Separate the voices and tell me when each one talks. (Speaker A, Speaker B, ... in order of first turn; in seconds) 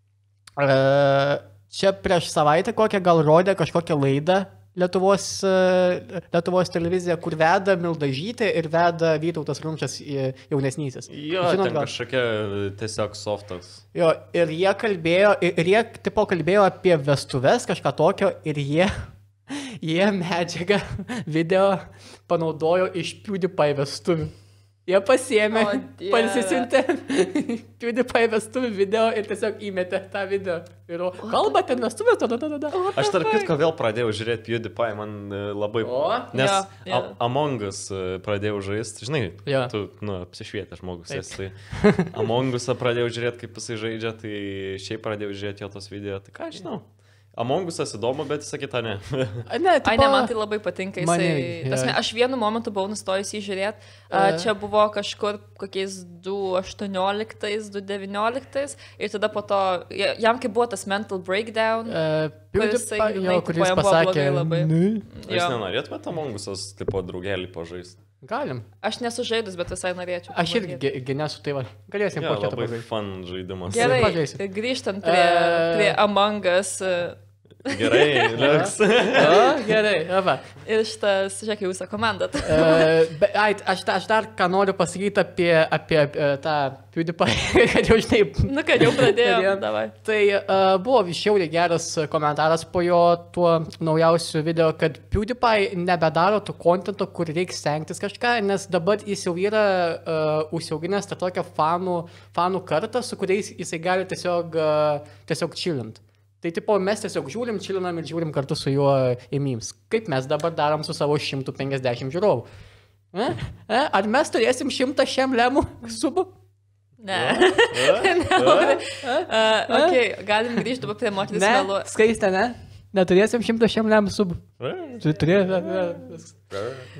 Speaker A: 0.6-11.9, 13.9-24.3, 24.9-32.8, 35.8-36.3, 39.4-39.7, 41.1-42.1, 49.5-50.3, 51.0-51.9, 54.1-54.5, 61.9-65.1, 68.2-68.6, 70.3-72.8, 73.7-74.4, 75.0-76.0, 78.3-80.4, 82.4-112.5, 113.1-116.3, 119.0-120.0, 121.3-124.4, 125.0-126.3
Speaker B: 11.1-13.8, 32.9-49.4, 65.2-68.0, 72.1-74.1, 77.6-79.6, 117.1-118.8, 124.6-125.3, 126.5-126.9
Speaker C: 25.5-26.7, 32.7-33.5, 36.3-37.1, 49.8-62.0, 62.5-65.6, 68.8-70.8, 73.7-78.5, 80.6-82.9, 88.5-89.9, 117.0-121.9